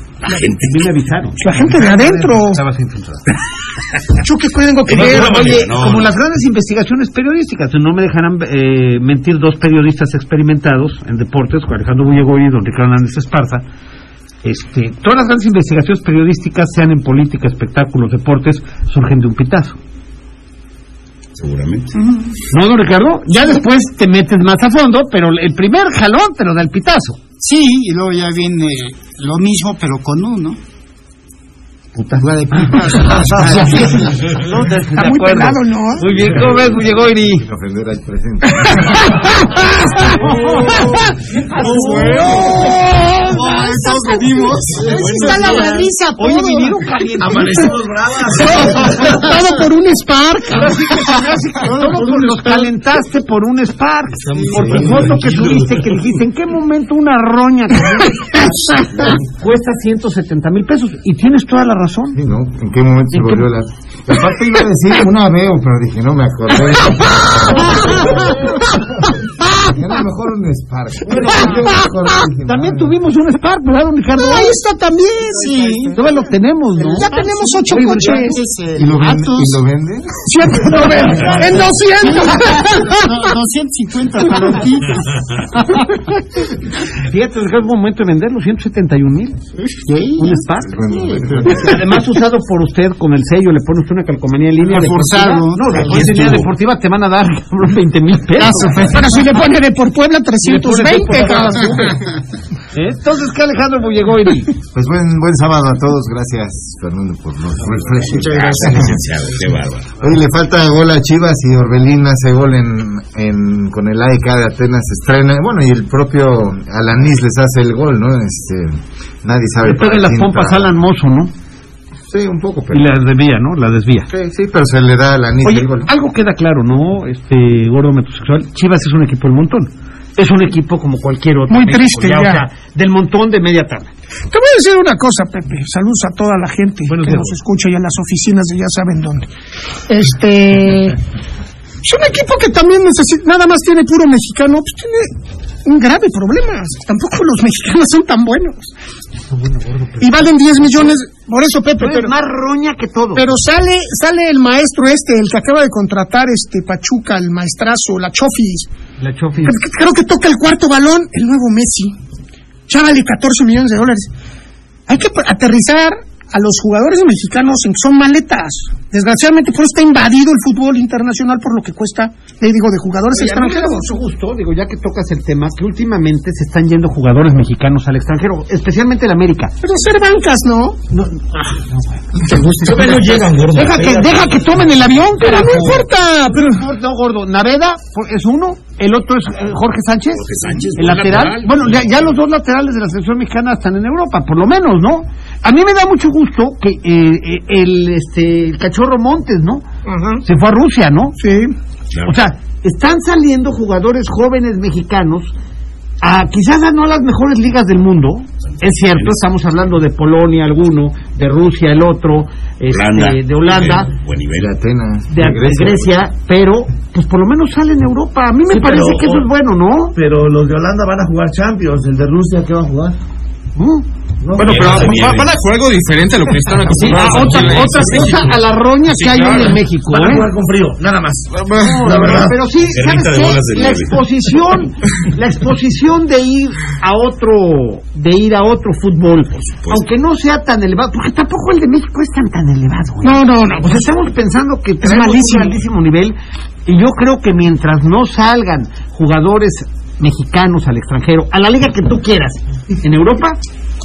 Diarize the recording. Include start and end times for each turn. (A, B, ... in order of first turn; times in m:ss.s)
0:00.3-0:00.9 A
0:00.6-0:03.2 B
0:01.4-0:02.6 C
0:04.2-0:05.5 C
0:04.9-0:06.1 A
0:04.9-0:13.6 B
0:14.4-0:19.8 B
0:21.4-0:21.9 A
0:22.5-0:27.2 B
0:27.4-0:30.6 D
0:31.9-0:37.4 B
0:32.2-0:34.1 D
0:34.9-0:36.1 C
0:36.8-0:39.1 E
0:38.6-0:46.8 C
0:40.0-0:42.8 B
0:44.8-0:47.8 B
0:47.2-0:48.8 F
0:47.4-0:47.7 C
0:48.2-0:51.2 C
0:48.4-0:49.0 B
0:50.5-0:58.2 B
0:51.6-0:52.7 D
0:54.3-0:55.0 D
0:54.4-0:55.7 A
0:59.0-1:02.2 B
1:02.1-1:13.0 E
1:03.1-1:03.4 B
1:11.0-1:11.9 B
1:11.2-1:11.7 C
1:12.4-1:14.6 B
1:14.1-1:16.1 C
1:15.3-1:16.0 D
1:16.0-1:17.1 B
1:16.8-1:18.4 C
1:17.0-1:19.6 D
1:17.7-1:18.2 B
1:18.8-1:20.8 E
1:20.2-1:23.3 C
1:21.1-1:25.9 D
1:26.9-1:29.4 B
1:29.6-1:31.8 D
1:30.2-1:30.8 B
1:30.6-1:31.8 E
1:31.4-1:39.0 B
1:34.6-1:36.1 D
1:35.8-1:36.5 A
1:38.4-1:42.0 C
1:40.4-1:42.0 B
1:42.7-1:44.5 B
1:44.7-1:49.0 E
1:47.8-1:50.0 A
1:50.0-2:00.7 E
1:59.6-2:01.3 B
2:02.1-2:02.9 E
2:02.7-2:04.1 B
2:04.1-2:05.9 E
2:05.4-2:13.9 B
2:11.5-2:12.4 C
2:14.3-2:19.3 C
2:16.8-2:17.3 B
2:19.9-2:21.0 C
2:21.8-2:25.1 C
2:25.6-2:28.7 C
2:29.3-2:30.9 B
2:30.0-2:32.1 C
2:31.8-2:33.2 B
2:33.1-2:38.7 C
2:39.0-2:39.6 B
2:39.4-2:41.9 C
2:42.7-2:44.1 C
2:44.9-2:53.9 C
2:53.1-2:59.5 B
2:59.6-3:00.8 C
3:00.9-3:10.2 B
3:02.5-3:04.3 A
3:05.2-3:06.6 C
3:10.2-3:12.0 A
3:10.8-3:19.6 B
3:19.8-3:20.2 C
3:20.2-3:21.2 B
3:21.2-3:21.5 C
3:21.9-3:22.2 A
3:22.0-3:25.3 B
3:26.0-3:33.9 B
3:28.7-3:29.2 A
3:32.7-3:34.5 A
3:34.4-3:36.0 E
3:35.1-3:40.0 B
3:40.0-3:40.7 F
3:41.2-3:42.0 F
3:43.6-3:43.8 B
3:44.3-3:48.3 G
3:44.4-3:45.3 A
3:46.7-3:50.3 B
3:47.0-3:47.6 A
3:49.0-3:49.5 G
3:51.4-3:51.9 G
3:51.5-4:13.4 B
3:51.9-3:54.2 A
3:59.3-3:59.8 A
4:03.0-4:03.8 C
4:04.8-4:05.6 C